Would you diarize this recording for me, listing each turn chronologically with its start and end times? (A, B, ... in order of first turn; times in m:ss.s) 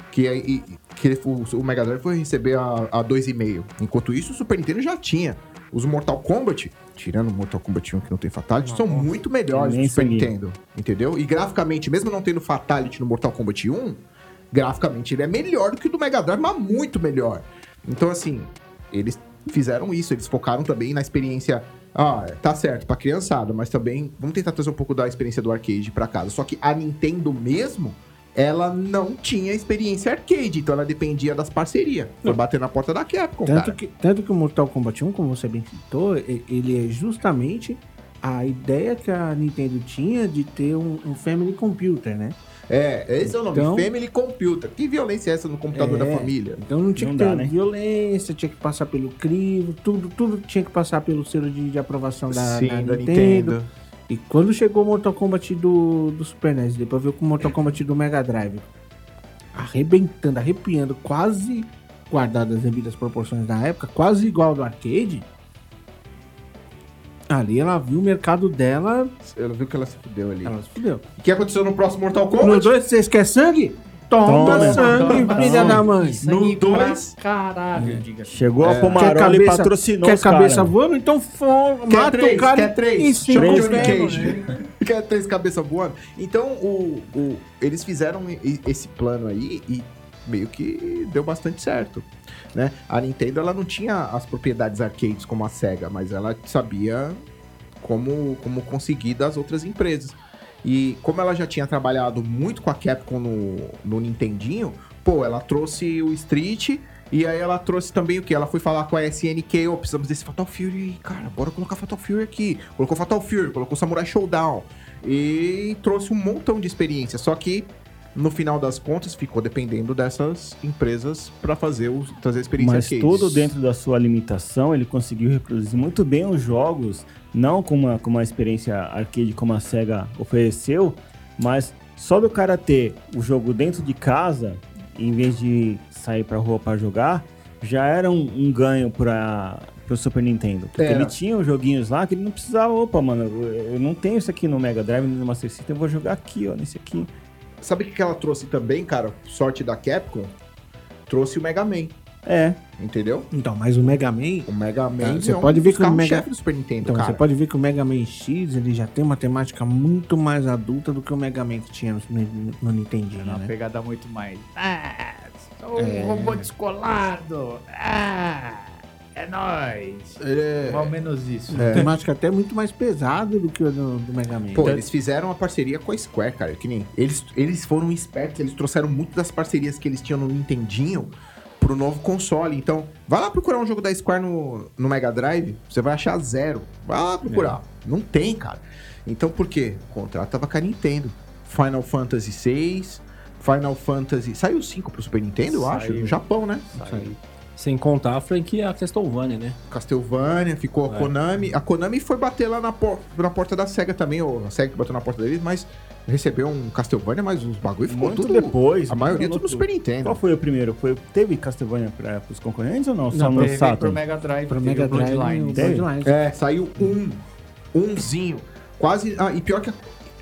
0:00.1-0:14.0 A
0:08.6-0:09.1 B
0:09.5-0:10.3 C
0:14.5-0:33.8 A
0:33.4-0:42.4 B
0:42.7-0:46.6 A
0:43.2-0:43.9 B
0:45.7-0:53.6 B
0:47.0-0:47.5 C
0:52.3-0:53.7 A
0:54.1-0:58.7 B
0:59.5-1:05.3 B
1:07.3-1:09.1 B
1:09.2-1:10.6 A
1:10.4-1:11.0 B
1:11.2-1:12.7 A
1:12.4-1:16.2 B
1:14.2-1:15.8 C
1:14.4-1:18.9 D
1:14.4-1:14.9 A
1:16.2-1:17.1 A
1:17.8-1:18.0 B
1:18.3-1:20.7 C
1:18.6-1:19.1 A
1:18.9-1:24.6 B
1:21.9-1:37.2 A
1:23.3-1:24.2 C
1:37.8-2:03.5 A
2:02.6-2:27.1 C
2:20.8-2:21.2 A
2:27.6-2:30.3 A
2:31.1-2:32.0 A
2:32.2-2:32.6 C
2:32.8-2:33.3 A
2:33.3-2:36.3 B
2:34.5-2:37.2 A
2:36.8-2:43.5 B
2:43.2-2:51.9 D
2:45.8-2:46.5 B
2:50.2-2:50.9 A
2:51.5-2:54.8 B
2:51.6-2:51.9 A
2:54.5-3:16.7 A
3:15.4-3:17.2 D
3:16.8-3:17.1 B
3:17.6-3:19.6 E
3:19.7-3:30.2 A
3:20.9-3:21.1 E
3:27.9-3:34.0 C
3:33.1-3:33.6 B
3:33.3-3:35.8 D
3:34.5-3:36.2 B
3:35.6-3:35.9 C
3:36.0-3:37.2 A
3:37.7-3:39.9 A